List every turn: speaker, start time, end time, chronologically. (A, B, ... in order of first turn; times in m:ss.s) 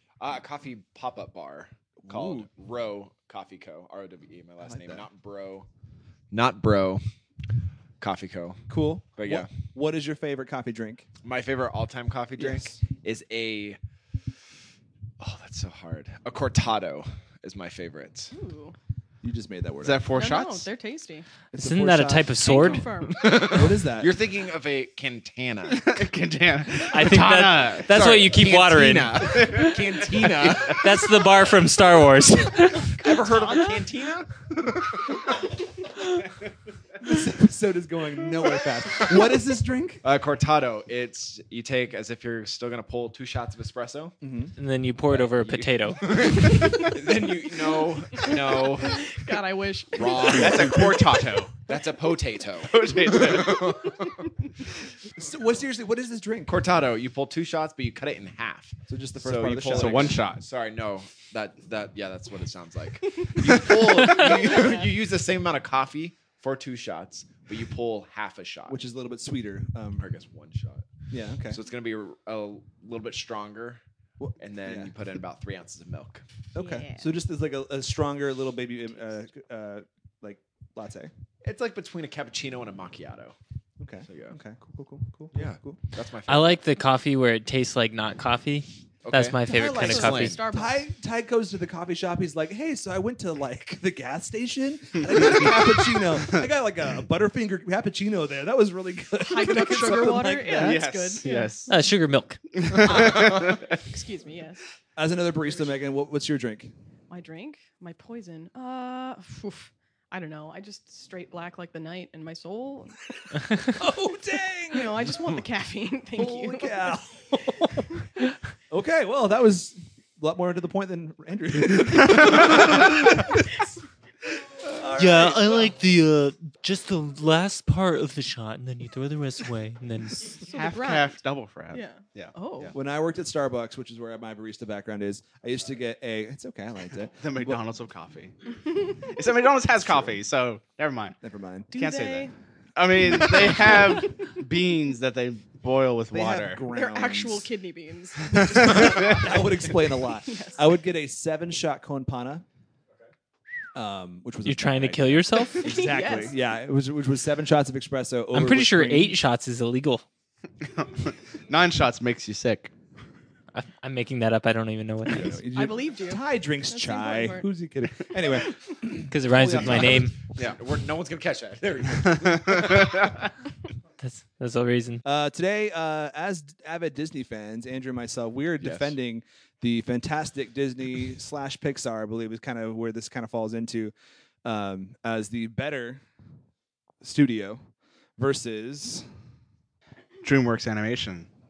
0:00.2-0:05.7 A
0:02.0-0:02.5 B
0:04.6-0:05.0 B
0:06.3-0:07.0 A
0:08.0-0:08.6 A
0:08.7-0:11.0 B
0:09.2-0:09.5 A
0:11.2-0:13.8 A
0:12.4-0:12.8 B
0:15.2-0:18.3 A
0:18.3-0:18.8 C
0:19.2-0:20.1 B
0:19.8-0:20.7 D
0:20.1-0:21.3 C
0:21.5-0:22.4 B
0:21.6-0:23.0 E
0:22.4-0:23.4 C
0:23.1-0:26.0 A
0:23.3-0:24.1 B
0:25.7-0:27.9 D
0:26.8-0:29.8 E
0:27.8-0:30.8 A
0:29.2-0:30.8 D
0:30.6-0:33.2 E
0:32.9-0:35.1 A
0:33.0-0:33.8 C
0:37.0-0:40.0 B
0:40.0-0:44.2 A
0:44.2-0:44.5 B
0:44.6-0:46.9 E
0:45.1-0:49.2 A
0:48.2-0:51.1 C
0:49.9-0:54.2 A
0:50.2-0:51.5 D
0:52.7-0:53.8 D
0:55.1-0:56.6 B
0:56.5-1:08.8 A
0:58.9-1:00.2 B
0:59.6-1:00.4 D
1:03.8-1:04.4 E
1:08.7-1:10.1 B
1:10.0-1:10.9 A
1:11.1-1:11.6 B
1:11.5-1:13.8 A
1:14.2-1:14.9 B
1:14.4-1:16.2 A
1:16.5-1:21.1 B
1:16.6-1:17.1 C
1:21.4-1:23.4 A
1:23.8-1:25.8 B
1:24.0-1:24.4 A
1:25.3-1:26.6 A
1:26.3-1:30.4 E
1:29.0-1:30.4 A
1:29.5-1:30.8 C
1:29.5-1:40.9 B
1:39.2-1:41.7 C
1:40.5-1:41.8 D
1:41.7-1:42.4 E
1:42.5-1:43.6 D
1:42.8-1:44.6 C
1:45.0-1:46.7 B
1:47.1-1:52.9 C
1:53.7-1:55.1 B
1:54.7-1:57.0 C
1:56.2-2:03.4 B
2:04.6-2:05.7 B
2:04.9-2:10.4 E
2:10.4-2:12.4 D
2:10.5-2:11.2 C
2:11.7-2:12.7 C
2:12.7-2:17.6 B
2:17.2-2:18.4 D
2:18.9-2:21.2 D
2:19.8-2:20.2 B
2:21.2-2:21.7 B
2:21.7-2:22.3 C
2:21.7-2:26.6 D
2:23.1-2:24.1 C
2:26.1-2:27.5 B
2:26.7-2:30.7 C
2:28.5-2:32.4 B
2:28.6-2:28.9 D
2:33.7-2:39.2 B
2:34.4-2:35.7 E
2:35.3-2:36.4 C
2:38.3-2:40.0 E
2:40.6-2:42.7 D
2:43.5-2:45.4 E
2:45.1-2:50.2 B
2:45.5-2:47.5 C
2:48.0-2:48.6 C
2:49.1-2:50.1 E
2:49.6-2:53.3 A
2:52.1-2:52.5 D
2:54.0-2:55.0 E
2:55.0-3:03.9 B
2:58.6-2:58.9 A
3:04.4-3:06.0 B
3:07.0-3:07.6 B
3:08.2-3:09.1 B
3:10.2-3:11.3 D